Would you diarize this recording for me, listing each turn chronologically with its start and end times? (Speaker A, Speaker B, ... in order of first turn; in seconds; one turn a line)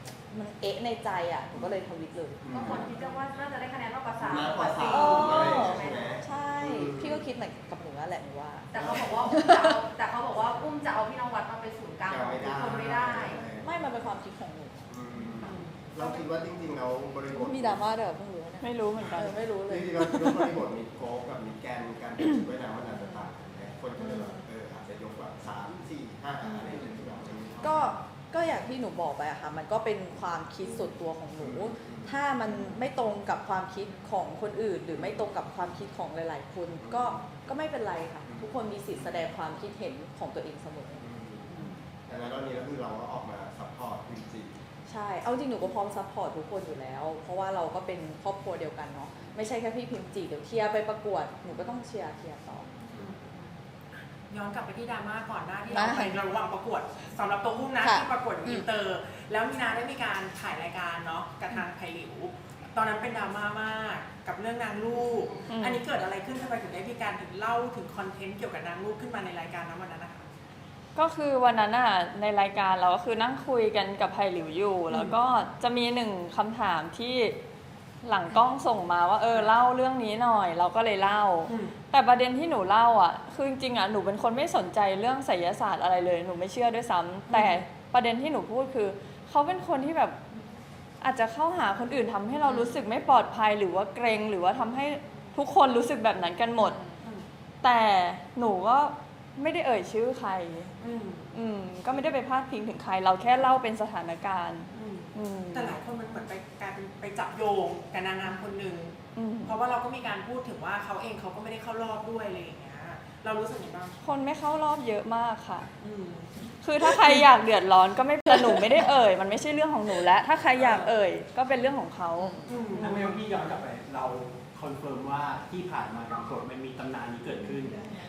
Speaker A: 0.3-2.7
Speaker B: 2.4-2.9
Speaker C: 2.5-6.2
Speaker B: 4.2-7.2
Speaker A: 4.9-9.8
Speaker C: 8.7-13.4
Speaker B: 8.8-9.2
Speaker B: 12.1-13.8
Speaker A: 13.6-14.9
Speaker B: 14.9-17.9
Speaker D: 15.4-15.8
Speaker C: 15.5-16.3
Speaker A: 17.3-20.5
Speaker E: 18.6-19.4
Speaker B: 19.0-27.9
Speaker A: 22.9-23.3
Speaker A: 24.0-24.4
Speaker A: 26.4-26.9
Speaker A: 27.6-41.0
Speaker B: 31.4-32.1
Speaker B: 34.9-35.2
Speaker B: 36.8-37.3
Speaker B: 38.3-39.2
Speaker B: 41.0-44.5
Speaker A: 44.9-52.7
Speaker D: 52.9-53.6
Speaker D: 54.3-70.2
Speaker A: 55.7-56.2
Speaker A: 57.8-58.6
Speaker E: 65.5-65.8
Speaker E: 71.0-77.4
Speaker E: 78.0-90.2
Speaker D: 81.5-81.8
Speaker D: 87.3-87.6
Speaker E: 91.0-96.8
Speaker A: 96.6-97.0
Speaker E: 97.6-100.7
Speaker D: 100.8-101.3
Speaker E: 101.3-105.8
Speaker D: 104.7-114.0
Speaker E: 109.2-109.6
Speaker E: 114.0-115.7
Speaker D: 115.8-116.3
Speaker E: 116.6-122.4
Speaker D: 116.8-117.2
Speaker D: 120.5-120.9
Speaker A: 122.2-122.6
Speaker D: 122.5-123.1
Speaker F: 122.8-127.8